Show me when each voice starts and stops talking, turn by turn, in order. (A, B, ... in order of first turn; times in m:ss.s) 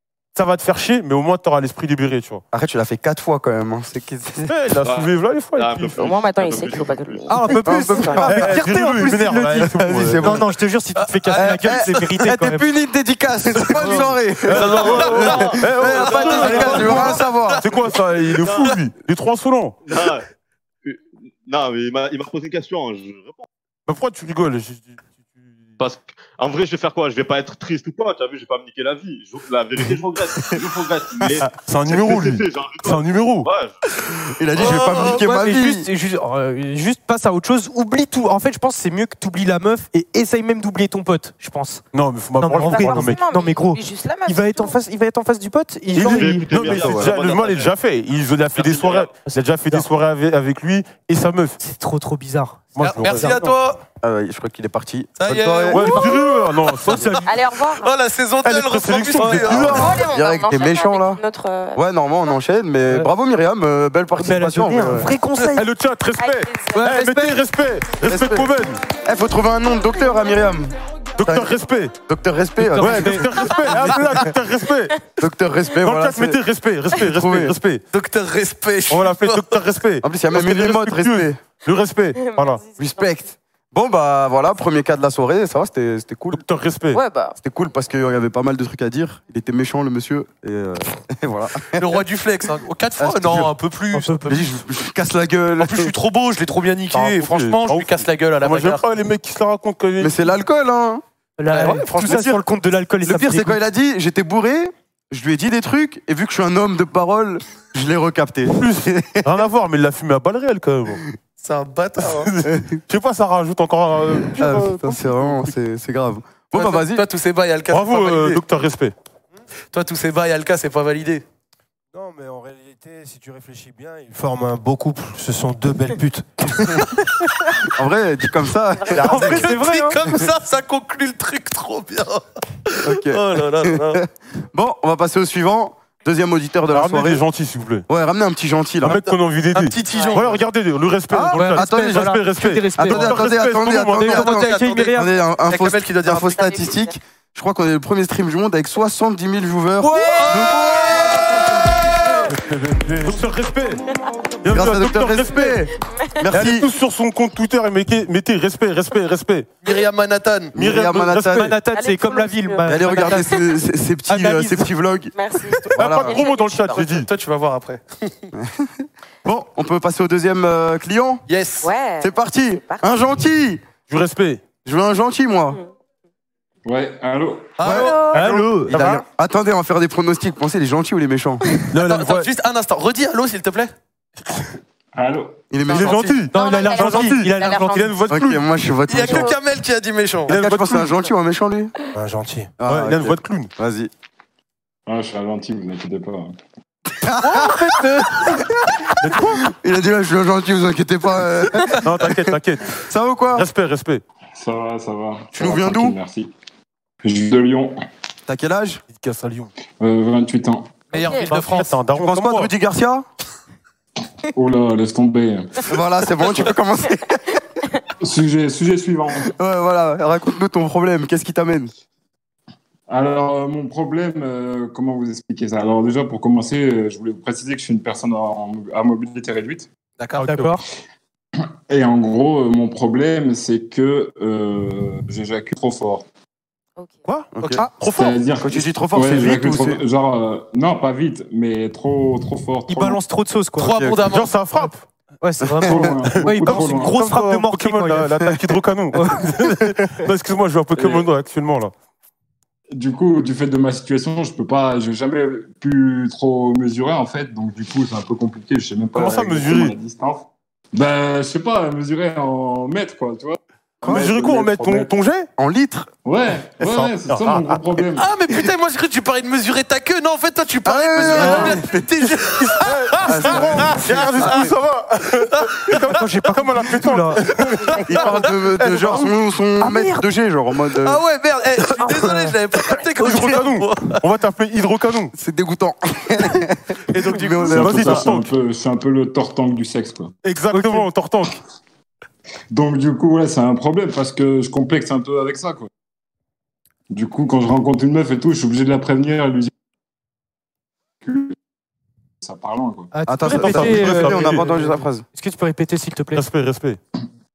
0:00.3-0:02.4 A
0:02.5-0:04.5 B
0:04.5-0:06.1 A
0:04.8-0:07.3 C
0:06.0-0:08.3 D
0:07.3-0:12.6 E
0:07.6-0:10.5 B
0:08.2-0:10.4 A
0:11.0-0:11.8 F
0:11.3-0:17.6 B
0:13.5-0:19.8 A
0:14.5-0:17.2 C
0:16.1-0:17.6 F
0:18.4-0:18.8 C
0:19.8-0:20.2 C
0:20.8-0:23.4 C
0:23.9-0:25.0 A
0:25.8-0:33.8 C
0:31.4-0:33.5 A
0:34.4-0:35.9 B
0:34.5-0:35.2 F
0:35.1-0:41.8 E
0:41.9-0:43.2 A
0:42.4-0:46.5 E
0:42.6-0:44.8 D
0:45.9-0:51.6 A
0:45.9-0:47.7 C
0:46.6-0:47.1 B
0:48.5-0:49.2 C
0:49.2-0:49.9 E
0:51.6-0:53.4 E
0:52.7-0:53.5 A
0:52.8-0:53.8 F
0:54.0-0:55.9 B
0:55.2-0:56.1 F
0:55.7-0:57.2 A
0:56.8-0:57.2 E
0:57.2-0:57.9 D
0:57.8-0:59.9 F
0:58.4-1:00.0 A
0:59.4-1:01.2 B
0:59.7-1:01.8 D
1:01.7-1:05.1 B
1:04.1-1:05.7 E
1:05.5-1:08.8 A
1:06.2-1:06.8 D
1:06.7-1:07.4 E
1:08.0-1:10.7 B
1:11.2-1:12.0 A
1:11.2-1:11.5 B
1:12.0-1:14.3 B
1:12.6-1:14.1 E
1:12.6-1:15.0 A
1:15.2-1:16.4 B
1:15.8-1:17.8 A
1:17.0-1:17.6 B
1:17.9-1:19.6 F
1:18.9-1:22.6 A
1:20.0-1:21.4 B
1:22.2-1:23.2 D
1:22.8-1:26.4 B
1:26.3-1:27.0 A
1:26.9-1:27.4 D
1:27.4-1:31.9 B
1:31.8-1:34.4 F
1:33.0-1:33.5 B
1:33.9-1:34.4 E
1:34.2-1:35.9 B
1:35.6-1:38.8 F
1:36.9-1:40.2 A
1:40.0-1:41.0 B
1:41.4-1:43.6 E
1:41.5-1:42.3 F
1:42.0-1:42.4 A
1:43.0-1:49.2 B
1:48.5-1:51.0 A
1:51.4-1:52.3 F
1:52.0-1:55.5 A
1:52.4-1:52.7 B
1:54.4-1:57.0 B
1:56.5-1:58.4 F
1:57.7-1:58.9 A
1:59.7-2:01.2 F
2:01.9-2:06.6 G
2:07.7-2:09.5 B
2:08.8-2:09.1 D
2:09.0-2:10.0 E
2:09.0-2:09.6 A
2:09.1-2:14.0 F
2:12.8-2:17.2 B
2:16.7-2:17.8 A
2:17.9-2:19.1 B
2:18.8-2:24.6 A
2:19.5-2:20.4 F
2:19.9-2:20.2 D
2:21.1-2:31.3 B
2:21.4-2:23.4 E
2:23.9-2:25.1 E
2:24.1-2:24.9 F
2:25.5-2:26.7 F
2:26.3-2:26.9 D
2:29.8-2:31.3 F
2:32.3-2:33.8 A
2:32.5-2:33.1 G
2:34.4-2:35.6 A
2:34.4-2:36.7 B
2:35.9-2:36.2 D
2:36.2-2:39.5 A
2:39.6-2:40.5 F
2:40.5-2:41.5 B
2:40.6-2:41.5 A
2:41.3-2:43.3 E
2:41.7-2:43.4 D
2:42.6-2:45.1 B
2:44.1-2:44.7 E
2:45.1-2:46.8 D
2:45.6-2:46.2 B
2:45.8-2:47.1 A
2:46.7-2:48.1 F
2:48.3-2:51.2 B
2:51.3-2:51.7 F
2:51.6-2:52.1 D
2:52.0-2:53.6 B
2:53.9-2:54.4 A
2:54.6-2:55.6 B
2:56.6-2:57.6 H
2:57.6-2:58.4 F
2:57.6-2:58.0 B
2:58.1-2:58.7 E
2:58.1-2:59.0 A
2:58.7-3:01.4 B
3:01.7-3:02.3 A
3:01.7-3:03.7 F
3:04.9-3:05.5 H
3:05.5-3:06.1 B
3:05.7-3:08.4 A
3:05.7-3:06.1 F
3:06.3-3:07.9 D
3:06.3-3:08.0 E
3:08.1-3:09.4 B
3:08.9-3:10.4 F
3:10.3-3:10.9 A
3:10.3-3:11.7 B
3:11.9-3:12.6 G
3:12.6-3:13.9 B
3:12.6-3:13.5 A
3:14.9-3:16.4 H
3:17.0-3:17.6 B
3:17.3-3:18.0 E
3:18.2-3:22.2 B
3:19.0-3:19.4 A
3:21.8-3:22.8 A
3:22.8-3:23.4 B
3:23.3-3:24.0 A
3:24.4-3:26.3 H
3:25.3-3:26.0 B
3:27.0-3:27.8 H
3:28.3-3:28.8 B
3:28.9-3:29.5 A
3:29.8-3:30.8 H
3:30.9-3:31.7 F
3:30.9-3:31.3 D
3:31.3-3:32.5 A
3:32.0-3:33.0 B
3:34.3-3:35.6 H
3:35.7-3:37.4 B
3:38.0-3:39.3 H
3:39.3-3:41.7 B
3:42.9-3:49.7 H
3:50.0-3:50.4 F
3:50.2-3:50.6 E
3:51.7-3:56.0 H
3:56.8-3:57.0 D
3:57.0-3:58.2 A
3:57.4-3:57.7 B
3:57.9-4:03.0 H
3:58.4-3:59.8 B
4:02.7-4:04.0 E
4:03.6-4:04.3 F
4:04.0-4:04.8 A
4:05.2-4:08.2 E
4:05.4-4:05.9 B
4:05.6-4:07.0 H
4:06.1-4:11.7 A
4:08.9-4:09.3 E
4:10.7-4:11.1 H
4:12.7-4:24.9 H
4:18.9-4:19.8 A
4:23.8-4:24.1 B
4:23.8-4:25.3 A
4:25.4-4:25.9 B
4:26.0-4:28.1 H
4:26.6-4:27.6 A
4:28.0-4:34.5 F
4:30.6-4:32.0 B
4:31.1-4:31.6 A
4:32.3-4:37.8 A
4:33.0-4:34.5 B
4:35.4-4:35.8 F
4:35.9-4:37.2 E
4:37.8-4:41.0 B
4:37.9-4:39.0 F
4:39.6-4:40.0 E
4:40.8-4:44.0 F
4:42.0-4:42.3 E
4:43.0-4:45.1 A
4:45.1-4:48.1 B
4:46.9-4:48.0 F
4:47.4-4:50.2 H
4:47.5-4:48.3 A
4:50.2-4:51.4 A
4:50.5-4:50.9 E
4:52.5-4:55.7 H
4:56.9-4:59.5 H
5:01.0-5:01.3 H
5:02.2-5:02.9 H
5:02.9-5:06.2 E
5:03.1-5:05.0 B
5:03.2-5:04.6 A
5:06.1-5:06.8 A